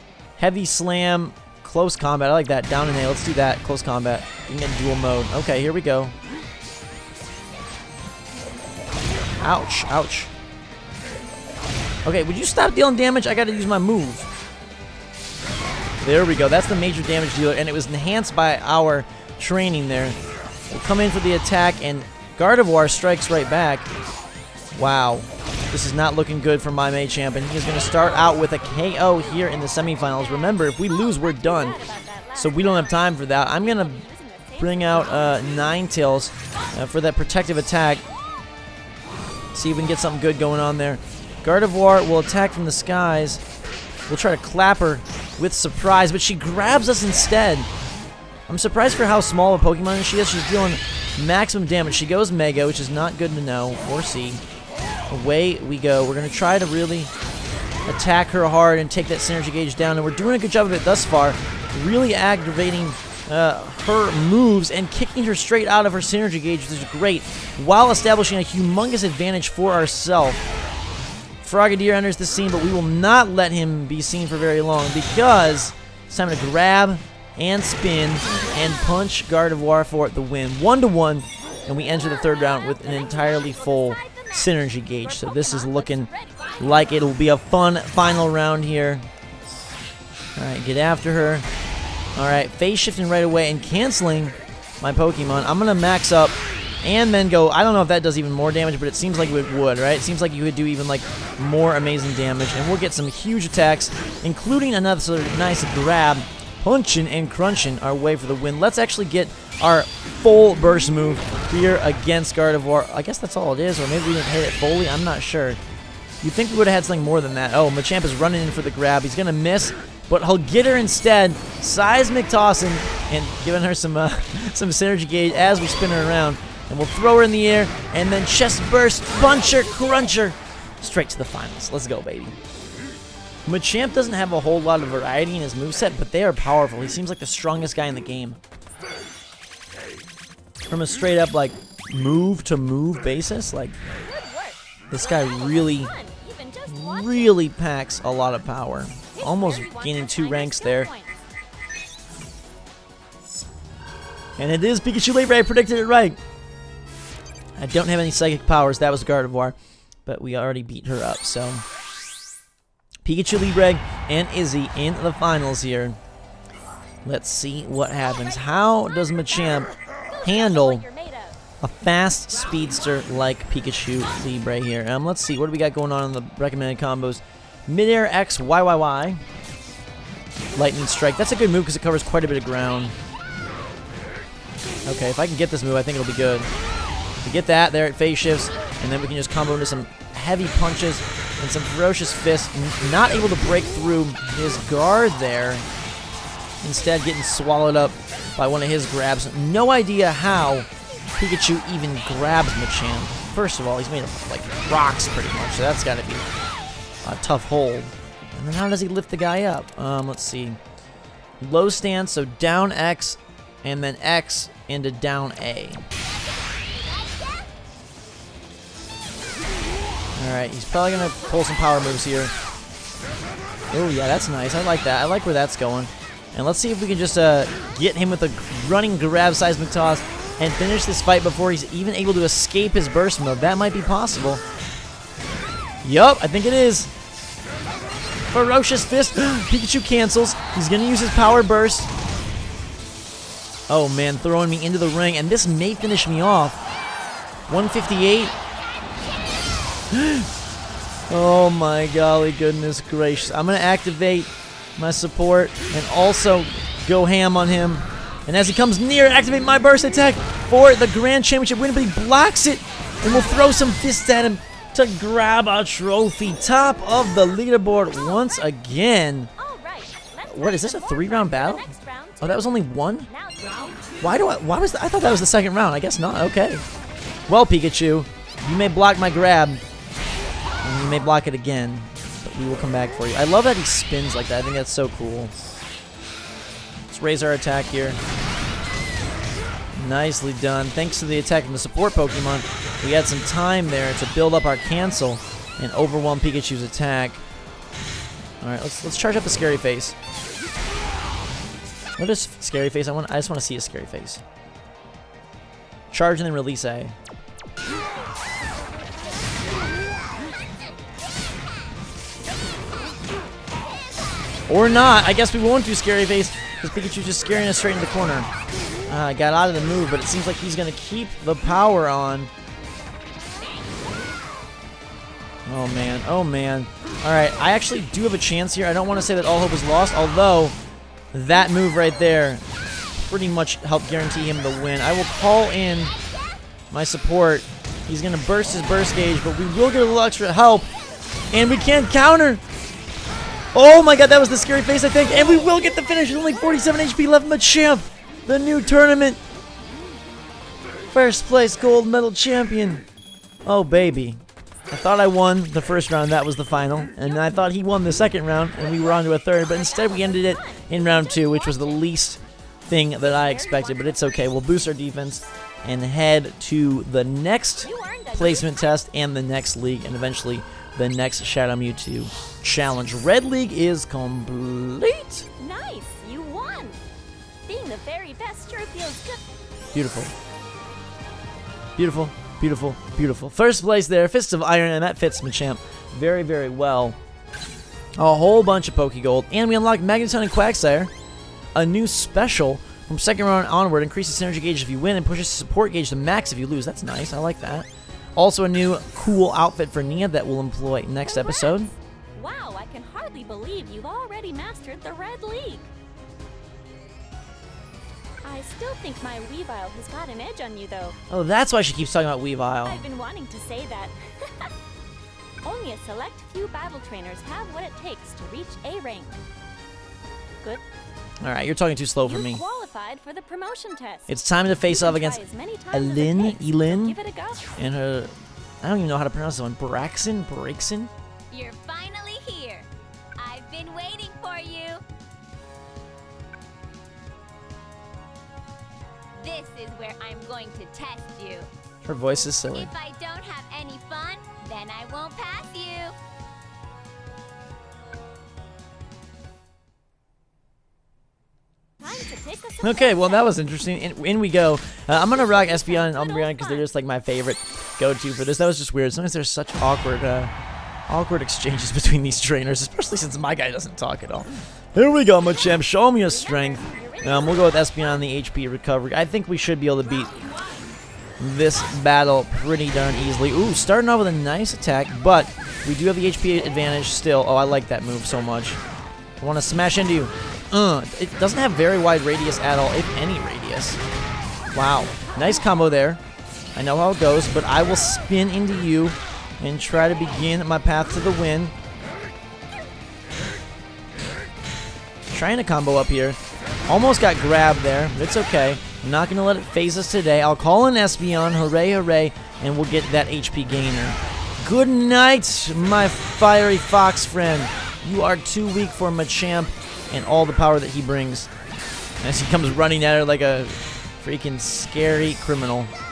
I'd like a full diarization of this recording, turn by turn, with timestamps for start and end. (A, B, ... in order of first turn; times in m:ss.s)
0:00.4-0:06.2 A
0:09.4-0:10.3 A
0:12.0-0:14.3 A
0:16.0-0:20.2 A
0:20.7-0:23.9 A
0:24.7-0:31.8 A
0:28.0-0:28.3 B
0:28.8-0:35.5 B
0:32.3-0:34.0 A
0:34.6-0:38.0 A
0:39.5-0:43.4 A
0:44.1-0:47.7 A
0:48.5-0:54.4 A
0:55.1-0:57.1 A
0:57.8-1:10.4 A
1:11.4-1:26.1 A
1:18.4-1:18.7 B
1:22.2-1:26.6 B
1:26.6-1:29.0 A
1:30.4-1:31.4 A
1:32.2-1:55.6 A
1:56.2-2:12.4 A
2:13.4-2:18.4 A
2:20.7-2:23.8 A
2:23.9-2:27.4 B
2:24.9-2:25.9 A
2:26.7-2:30.9 A
2:29.1-2:31.1 B
2:34.4-2:36.2 A
2:37.6-2:39.5 A
2:40.0-2:41.6 A
2:43.0-2:46.0 A
2:47.0-2:50.8 A
2:50.1-2:51.4 B
2:51.6-2:59.2 A
3:00.5-3:03.0 A
3:04.8-3:06.5 A
3:07.2-3:15.6 A
3:16.6-3:26.2 A
3:27.0-3:30.6 A
3:31.4-3:35.8 A
3:40.1-3:42.3 A
3:43.7-3:54.4 A
3:55.8-3:56.9 A
3:58.3-4:01.9 A
4:03.7-4:06.6 A
4:07.5-4:08.4 A
4:09.9-4:10.3 A
4:11.1-4:29.3 A
4:29.4-4:34.0 B
4:30.3-4:31.7 A
4:32.2-4:33.1 A
4:34.0-4:36.6 A
4:37.3-4:39.6 A
4:40.6-4:45.3 A
4:46.9-4:48.0 A
4:49.7-4:57.2 A
4:58.4-5:00.0 A
5:02.0-5:04.2 A
5:05.9-5:07.0 A
5:14.5-5:18.3 A
5:18.9-5:22.3 A
5:25.5-5:30.6 A
5:31.1-5:32.4 A
5:33.0-5:35.9 A
5:36.7-5:40.7 A
5:41.3-5:42.4 A
5:43.5-5:49.2 A
5:45.2-5:46.6 B
5:50.9-5:52.8 A
5:53.4-6:15.3 A
5:59.5-6:01.9 B
6:03.0-6:04.4 B
6:07.6-6:08.7 B
6:15.4-6:16.8 B
6:17.5-6:19.3 B
6:19.7-6:20.1 A
6:21.8-6:27.0 A
6:28.0-6:30.9 A
6:31.5-6:41.7 A
6:41.0-6:45.7 B
6:48.2-6:51.0 B
6:51.1-6:52.8 A
6:52.6-6:54.5 B
6:55.4-6:59.2 B
7:01.2-7:02.4 A
7:02.0-7:04.1 B
7:04.1-7:05.2 A
7:04.6-7:07.5 B
7:05.7-7:07.0 A
7:07.6-7:10.9 A
7:11.3-7:14.8 C
7:19.1-7:21.5 C
7:21.8-7:22.7 A
7:22.5-7:25.9 C
7:31.8-7:33.3 B
7:32.6-7:40.3 A
7:35.0-7:36.7 B
7:40.9-7:50.2 A
7:46.0-7:48.1 B
7:51.2-7:58.6 A
7:59.2-8:03.8 A
8:04.5-8:06.0 A
8:06.5-8:11.5 A
8:15.1-8:31.3 A
8:32.0-8:35.7 A